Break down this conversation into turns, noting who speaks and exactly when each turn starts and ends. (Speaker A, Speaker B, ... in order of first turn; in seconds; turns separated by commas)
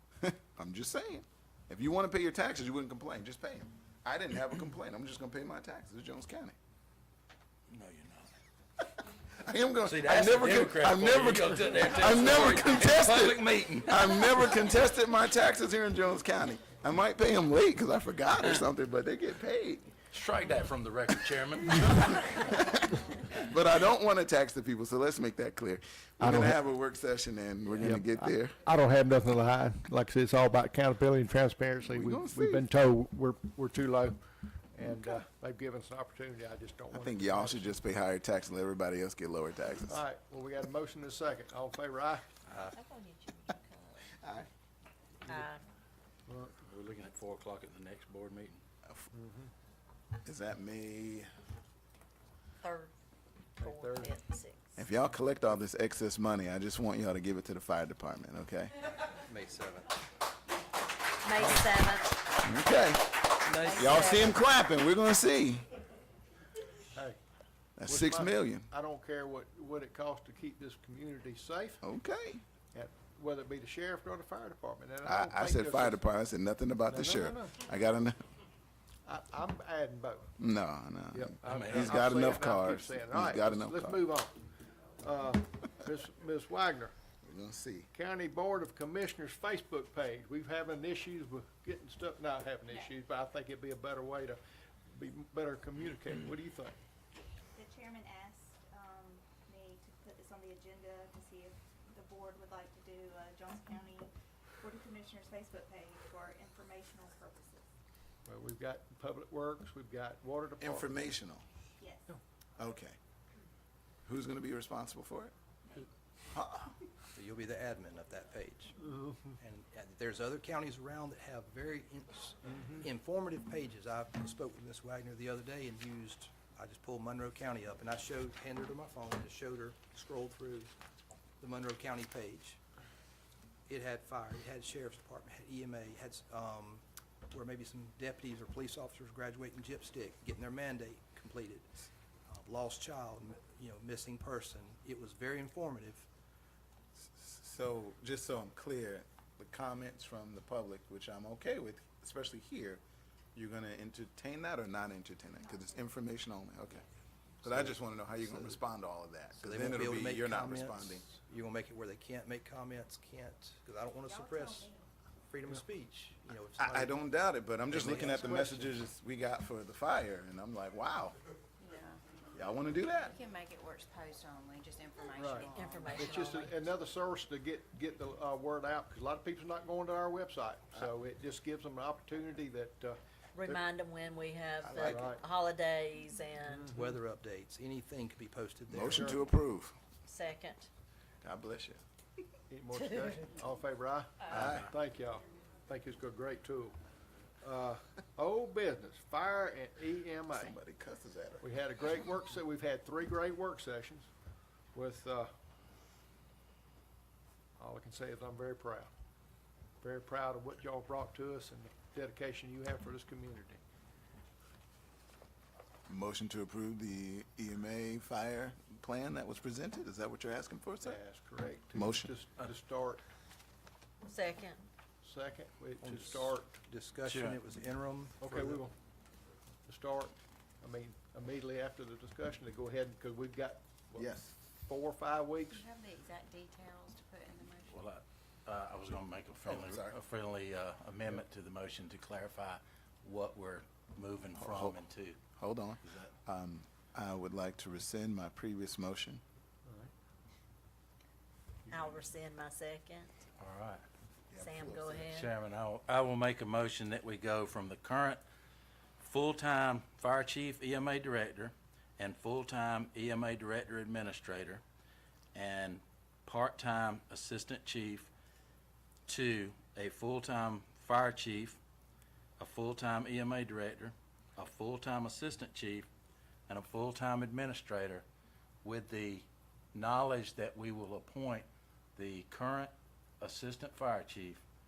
Speaker A: 0.2-6.5, Speaker B: 7.7-8.3, Speaker A: 9.0-19.9, Speaker B: 9.8-14.3, Speaker B: 20.1-22.5, Speaker A: 22.3-28.6, Speaker C: 26.2-26.6, Speaker C: 27.8-37.8, Speaker A: 31.8-32.6, Speaker A: 36.9-40.0, Speaker C: 39.9-42.3, Speaker D: 42.6-44.1, Speaker A: 44.2-44.5, Speaker D: 45.2-45.6, Speaker C: 46.3-46.5, Speaker B: 46.6-48.6, Speaker C: 49.1-49.5, Speaker A: 50.2-51.3, Speaker D: 52.6-52.9, Speaker D: 53.6-54.7, Speaker C: 53.6-54.2, Speaker A: 54.8-58.7, Speaker E: 59.3-59.9, Speaker D: 61.2-62.2, Speaker A: 62.4-65.7, Speaker E: 63.5-63.9, Speaker D: 63.5-64.3, Speaker C: 66.9-67.2, Speaker A: 67.8-68.7, Speaker C: 67.8-71.8, Speaker A: 71.8-72.4, Speaker C: 72.7-76.0, Speaker A: 75.0-78.2, Speaker C: 76.8-77.6, Speaker C: 79.0-80.3, Speaker A: 80.4-84.1, Speaker C: 81.1-84.4, Speaker B: 81.4-82.0, Speaker C: 85.0-86.9, Speaker A: 87.2-87.9, Speaker C: 87.9-96.8, Speaker F: 97.5-107.7, Speaker C: 108.2-111.0, Speaker A: 110.6-111.4, Speaker F: 111.8-112.1, Speaker A: 112.6-113.0, Speaker A: 114.0-115.3, Speaker A: 116.3-116.7, Speaker E: 117.1-118.8, Speaker C: 118.8-119.3, Speaker E: 119.4-130.7, Speaker C: 122.5-122.8, Speaker E: 131.4-132.6, Speaker E: 133.7-146.1, Speaker A: 147.1-152.8, Speaker A: 153.3-156.8, Speaker F: 155.3-155.9, Speaker A: 157.4-161.1, Speaker E: 157.4-158.6, Speaker E: 159.3-164.7, Speaker F: 164.0-164.9, Speaker E: 165.2-167.0, Speaker A: 166.6-171.2, Speaker E: 167.7-168.8, Speaker G: 171.6-172.0, Speaker A: 172.3-173.1, Speaker G: 172.9-176.1, Speaker C: 175.1-183.7, Speaker D: 175.5-176.5, Speaker D: 183.3-186.8, Speaker A: 184.6-185.2, Speaker C: 184.8-185.2, Speaker C: 186.5-186.9, Speaker E: 186.7-189.2, Speaker A: 188.7-189.8, Speaker C: 188.8-189.2, Speaker D: 190.1-190.7, Speaker A: 191.2-191.8, Speaker C: 192.5-196.7, Speaker A: 194.3-194.7, Speaker C: 197.4-200.6, Speaker A: 200.3-201.4, Speaker C: 201.4-204.1, Speaker C: 204.7-205.3, Speaker C: 207.6-208.9, Speaker C: 209.8-213.6, Speaker A: 215.9-221.0, Speaker C: 220.8-223.0, Speaker A: 221.7-222.1, Speaker D: 224.0-224.6, Speaker C: 225.0-226.5, Speaker E: 225.8-228.7, Speaker B: 227.0-227.4, Speaker C: 228.2-228.7, Speaker C: 229.7-235.6, Speaker A: 233.9-234.3, Speaker G: 235.5-237.8, Speaker B: 237.7-245.2, Speaker A: 239.4-240.0, Speaker A: 244.3-244.8, Speaker A: 245.3-249.2, Speaker B: 245.8-246.1, Speaker C: 249.7-249.9, Speaker D: 251.7-253.1, Speaker B: 253.4-253.8, Speaker A: 254.3-255.2, Speaker D: 254.3-255.3, Speaker B: 255.1-258.2, Speaker B: 259.0-264.6, Speaker B: 265.3-268.1, Speaker B: 269.1-271.6, Speaker B: 272.4-275.9, Speaker B: 276.5-278.0, Speaker B: 278.6-284.4